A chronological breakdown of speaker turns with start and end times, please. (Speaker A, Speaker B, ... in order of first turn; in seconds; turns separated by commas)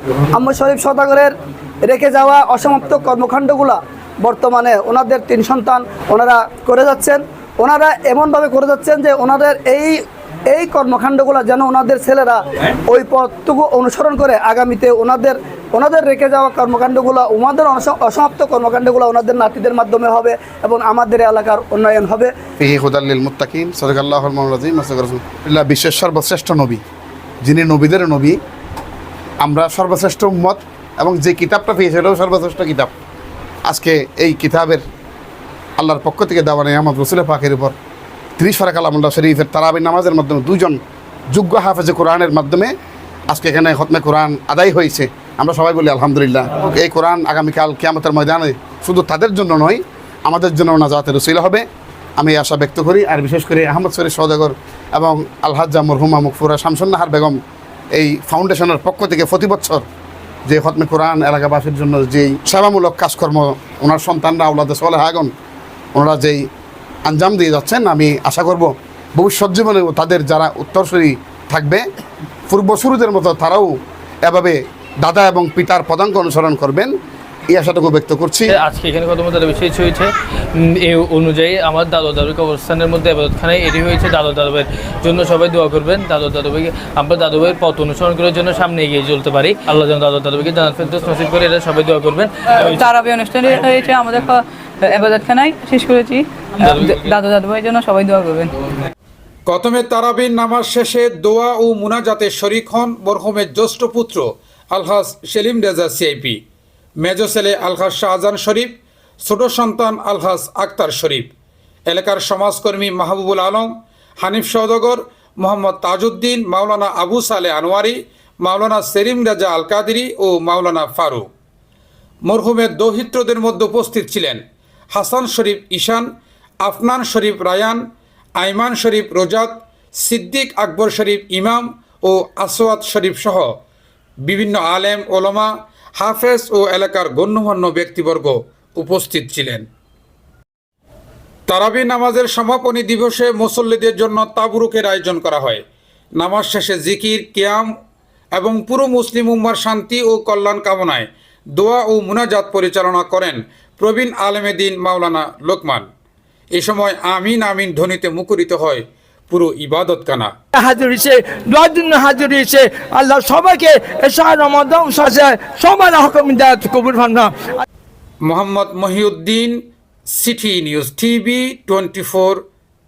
Speaker A: 0.3-22.3, Speaker B: 22.6-26.8, Speaker B: 27.4-28.4, Speaker B: 29.4-32.9, Speaker B: 33.6-34.8, Speaker B: 35.8-37.7, Speaker B: 38.4-40.8, Speaker B: 41.3-42.7, Speaker B: 43.3-51.6, Speaker B: 52.2-57.4, Speaker B: 57.9-59.8, Speaker B: 60.5-65.3, Speaker B: 65.9-66.5, Speaker B: 67.0-71.8, Speaker B: 72.5-76.9, Speaker B: 77.5-78.5, Speaker C: 78.5-92.9, Speaker D: 92.6-98.5, Speaker C: 96.6-97.2, Speaker E: 99.5-106.4, Speaker E: 107.0-111.3, Speaker E: 111.9-113.7, Speaker E: 114.2-121.3, Speaker E: 122.2-124.4, Speaker E: 124.9-126.1, Speaker E: 126.6-127.8, Speaker E: 128.4-133.5, Speaker E: 134.2-139.6, Speaker E: 141.5-145.6, Speaker E: 146.2-147.7, Speaker E: 148.3-155.8, Speaker E: 156.5-160.3, Speaker F: 160.5-167.5, Speaker E: 168.2-169.6, Speaker E: 170.1-172.4